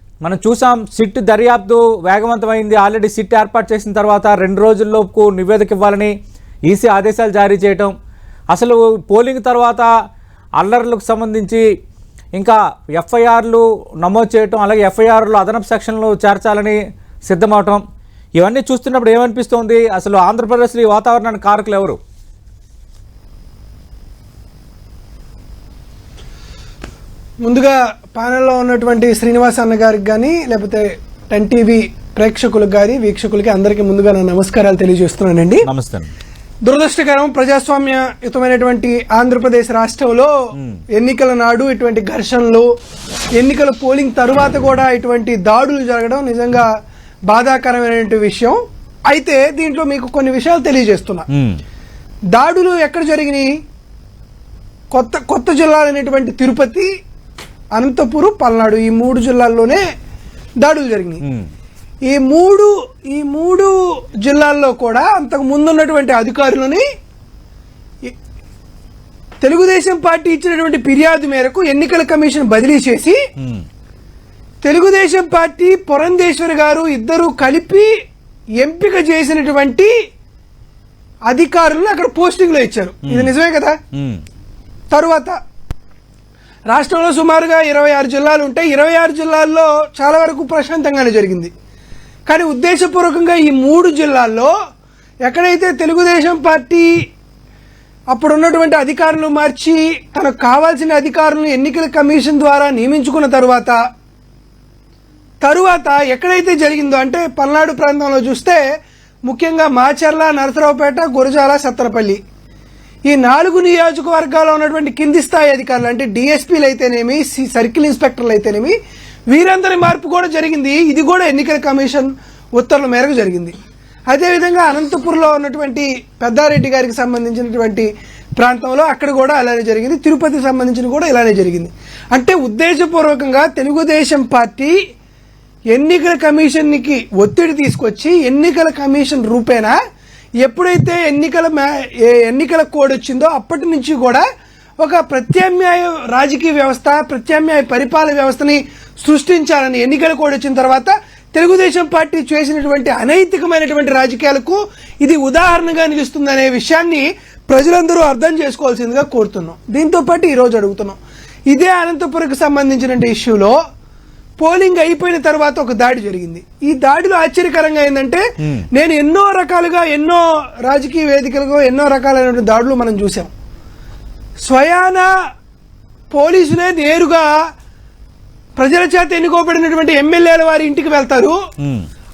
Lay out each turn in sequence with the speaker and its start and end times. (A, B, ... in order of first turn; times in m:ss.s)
0:00.2-0:06.1 A
0:06.7-0:07.9 A
0:08.5-0:09.9 A
0:10.6-0:11.6 A
0:12.4-0:17.8 A
0:18.4-0:22.0 A
0:27.4-0:35.7 B
0:35.6-0:36.1 A
0:36.6-0:40.3 B
0:40.6-0:40.8 A
0:40.9-0:42.7 B
0:43.4-0:46.7 B
0:47.3-0:51.2 B
0:51.3-0:51.6 A
0:52.3-0:53.5 B
0:54.9-0:56.9 B
0:57.7-0:59.8 B
1:00.6-1:01.2 B
1:02.1-1:03.7 B
1:04.2-1:06.8 B
1:09.4-1:13.2 B
1:13.4-1:13.6 A
1:14.6-1:17.9 B
1:18.6-1:19.9 B
1:21.3-1:23.8 B
1:23.0-1:23.3 A
1:23.9-1:24.2 A
1:24.9-1:25.3 B
1:26.7-1:31.5 B
1:32.3-1:34.5 B
1:35.2-1:36.9 B
1:38.1-1:43.8 B
1:45.4-1:48.6 B
1:49.2-1:52.2 B
1:53.1-1:58.7 B
1:59.3-2:03.5 B
2:04.1-2:14.8 B
2:15.7-2:19.8 B
2:20.4-2:24.2 B
2:24.8-2:43.5 B
2:44.4-2:53.3 B
2:48.4-2:48.6 A
2:54.4-2:55.1 B
2:56.1-2:57.3 B
2:58.6-3:01.4 B
3:01.6-3:01.8 A